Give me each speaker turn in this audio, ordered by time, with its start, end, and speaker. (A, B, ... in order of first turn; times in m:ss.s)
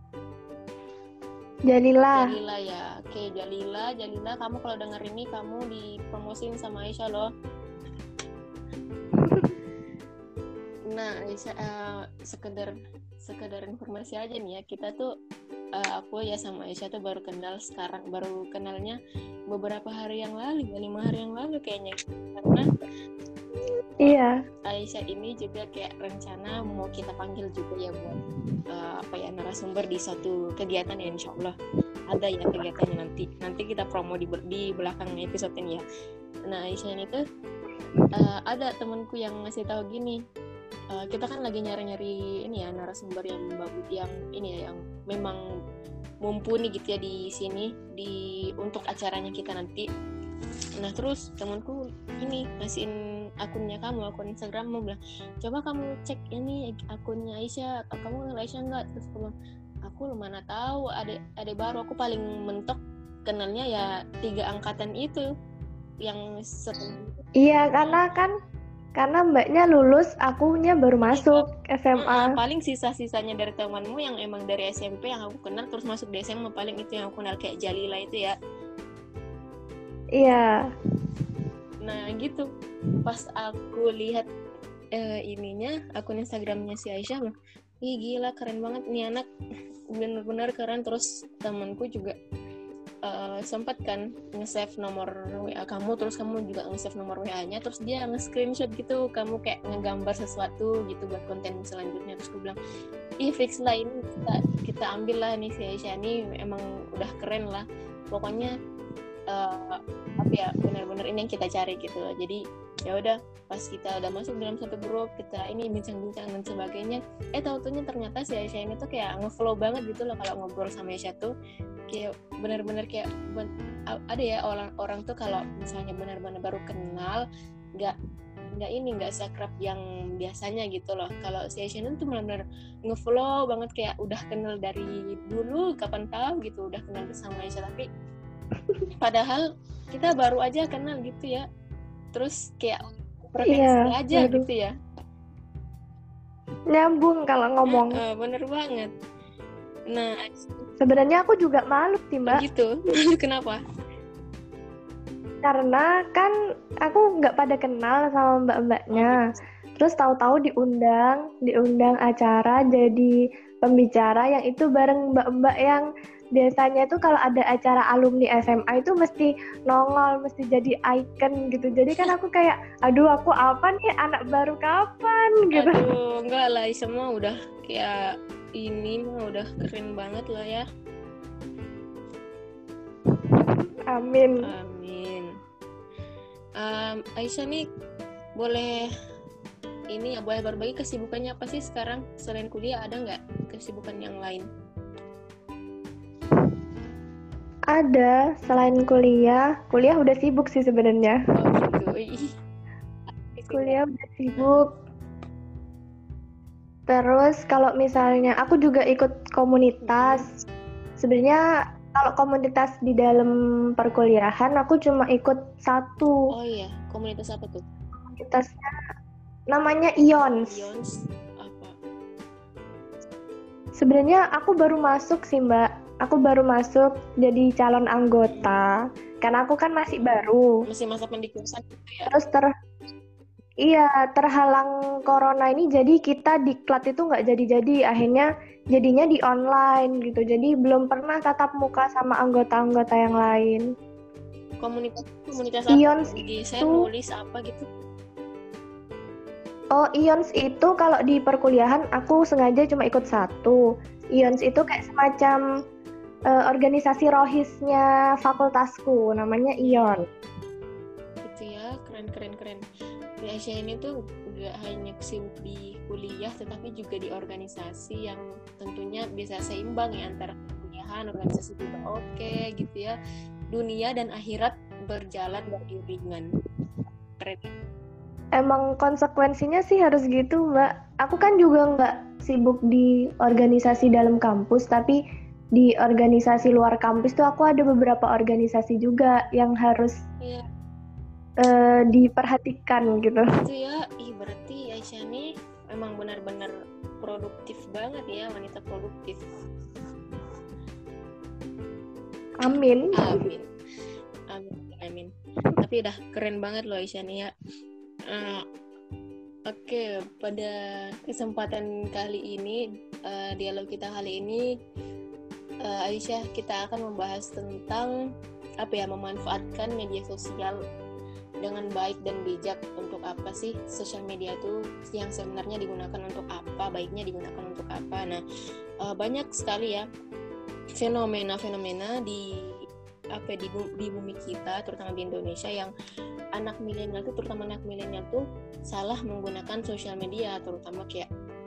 0:01.7-0:02.3 A
0:02.1-0:07.3 B
0:09.2-0:09.5 A
0:10.9-0:15.1 B
0:15.8-0:19.0 B
0:19.5-0:22.7 B
0:24.0-0:24.3 A
0:24.0-0:28.2 B
0:28.7-0:31.5 B
0:32.1-0:35.8 B
0:36.5-0:37.2 B
0:38.2-0:40.2 B
0:40.9-0:45.4 B
0:46.2-0:49.9 B
0:50.8-0:59.3 B
0:59.8-1:05.2 B
1:06.0-1:07.3 B
1:07.4-1:08.3 A
1:07.8-1:08.1 B
1:09.0-1:12.3 A
1:11.1-1:11.4 B
1:12.0-1:18.3 B
1:20.2-1:20.6 A
1:21.8-1:22.5 B
1:23.0-1:24.2 B
1:24.9-1:29.2 B
1:29.9-1:32.1 B
1:33.0-1:42.6 B
1:43.2-1:48.5 B
1:49.3-2:01.3 B
2:01.9-2:07.2 B
2:08.6-2:17.9 B
2:19.0-2:21.4 B
2:22.1-2:24.7 B
2:23.5-2:24.4 A
2:26.7-2:28.0 A
2:27.7-2:28.9 B
2:29.9-2:30.6 B
2:30.8-2:32.4 A
2:32.2-2:33.6 B
2:35.4-2:36.3 A
2:36.8-2:39.2 A
2:38.9-2:39.4 B
2:39.8-2:55.8 A
2:55.5-2:58.0 B
2:58.6-3:00.6 B
3:03.5-3:04.5 A
3:04.4-3:05.3 B
3:06.6-3:07.6 B
3:08.4-3:08.9 B
3:09.9-3:14.4 B
3:17.7-3:21.2 A
3:21.3-3:22.2 B
3:23.1-3:23.8 B
3:23.5-3:24.7 A
3:24.3-3:24.6 B
3:26.9-3:30.3 A
3:29.8-3:30.2 B
3:31.0-3:31.4 A
3:32.0-3:36.1 A
3:36.3-3:37.6 B
3:38.1-3:38.6 A
3:39.5-3:40.6 A
3:40.4-3:40.9 B
3:41.4-3:41.7 B
3:43.8-3:50.5 A
3:48.3-3:48.6 B
3:50.7-3:52.1 B
3:52.1-3:52.5 A
3:53.6-4:03.7 A
4:03.1-4:03.4 B
4:04.6-4:07.6 B
4:05.7-4:06.8 A
4:09.7-4:13.6 A
4:14.2-4:15.4 A
4:16.3-4:20.0 A
4:19.6-4:20.1 B
4:21.2-4:22.6 B
4:23.2-4:33.0 B
4:33.5-4:36.3 B
4:37.2-4:37.5 B
4:38.4-4:45.0 A
4:45.6-4:49.9 A
4:50.2-4:50.4 B
4:51.4-4:53.3 A
4:53.4-4:59.2 B
5:02.4-5:03.2 A
5:02.5-5:03.5 B
5:04.3-5:07.3 B
5:08.1-5:08.4 B
5:09.5-5:14.4 B
5:15.6-5:17.9 B
5:18.6-5:20.6 B
5:21.4-5:28.2 B
5:28.8-5:29.8 B
5:30.8-5:32.2 B
5:33.1-5:35.7 B
5:36.4-5:41.1 B